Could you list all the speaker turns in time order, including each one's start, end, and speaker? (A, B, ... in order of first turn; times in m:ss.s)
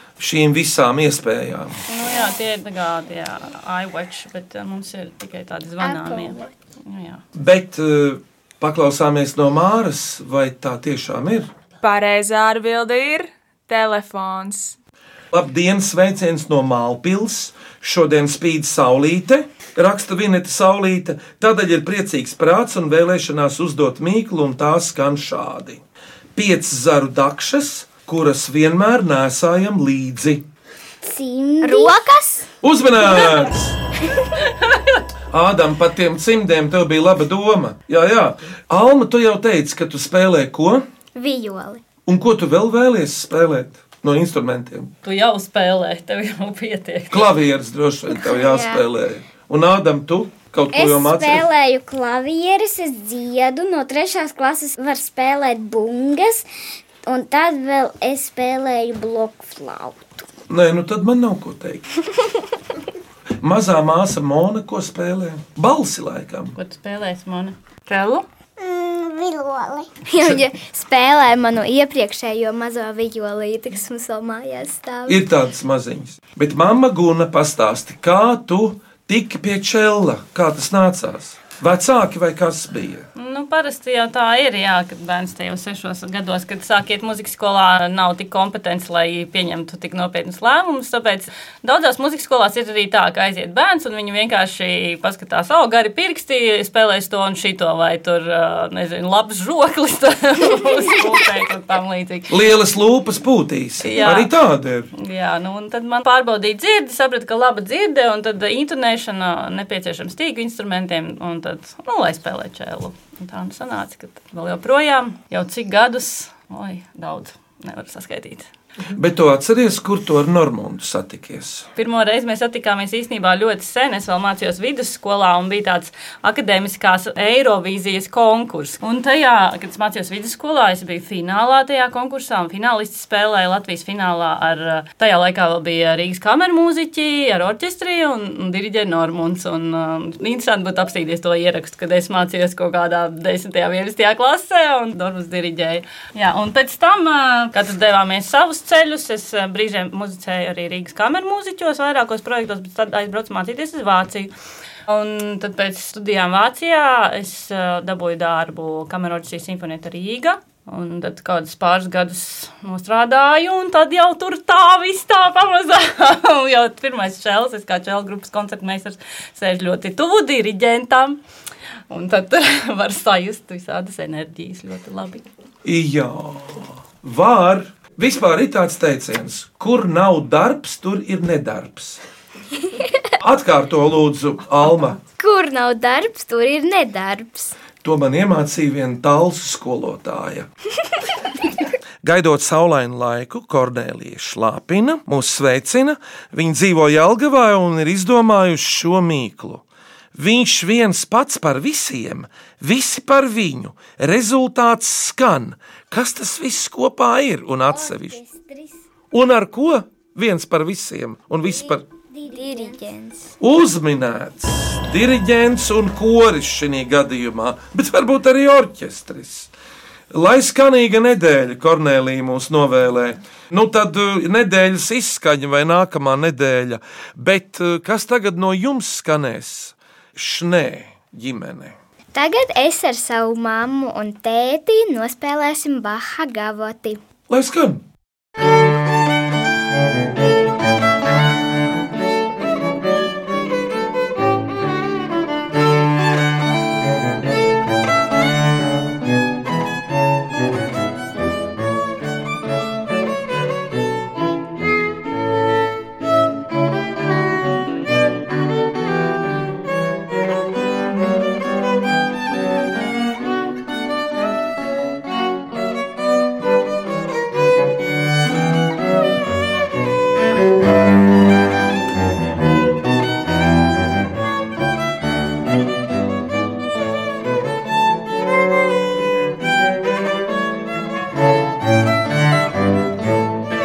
0:00.2-0:01.8 A
0:01.9-0:07.2 B
0:05.8-0:06.4 C
0:07.4-0:11.5 A
0:11.8-0:14.8 D
0:15.3-0:25.8 A
0:26.4-0:30.4 A
0:31.0-0:32.0 E
0:31.6-0:32.5 C
0:32.6-0:33.8 A
0:35.3-0:40.8 A
0:41.2-0:41.8 C
0:42.1-0:44.9 A
0:45.0-0:47.3 B
0:47.1-0:51.5 A
0:48.2-0:48.8 C
0:50.7-0:56.4 E
0:57.1-1:00.3 E
1:00.5-1:01.9 A
1:03.4-1:06.6 A
1:06.6-1:08.2 B
1:08.6-1:09.8 E
1:10.1-1:15.2 C
1:15.1-1:23.1 A
1:23.2-1:42.4 B
1:42.3-1:44.9 A
1:43.8-1:44.3 B
1:45.0-1:58.5 B
1:58.9-2:01.7 A
2:01.8-2:34.3 B
2:34.9-2:51.2 B
2:51.9-2:55.3 B
2:55.6-3:02.0 A
3:03.2-3:05.0 A
3:05.2-3:07.6 C
3:07.8-3:10.5 A
3:12.0-3:19.6 A
3:20.2-3:28.2 A
3:27.7-3:28.8 E
3:29.1-3:31.8 A
3:31.6-3:32.8 E
3:32.3-3:33.3 C
3:33.4-3:39.5 A
3:40.1-3:51.8 A
3:52.1-3:57.0 C
3:57.3-3:57.8 A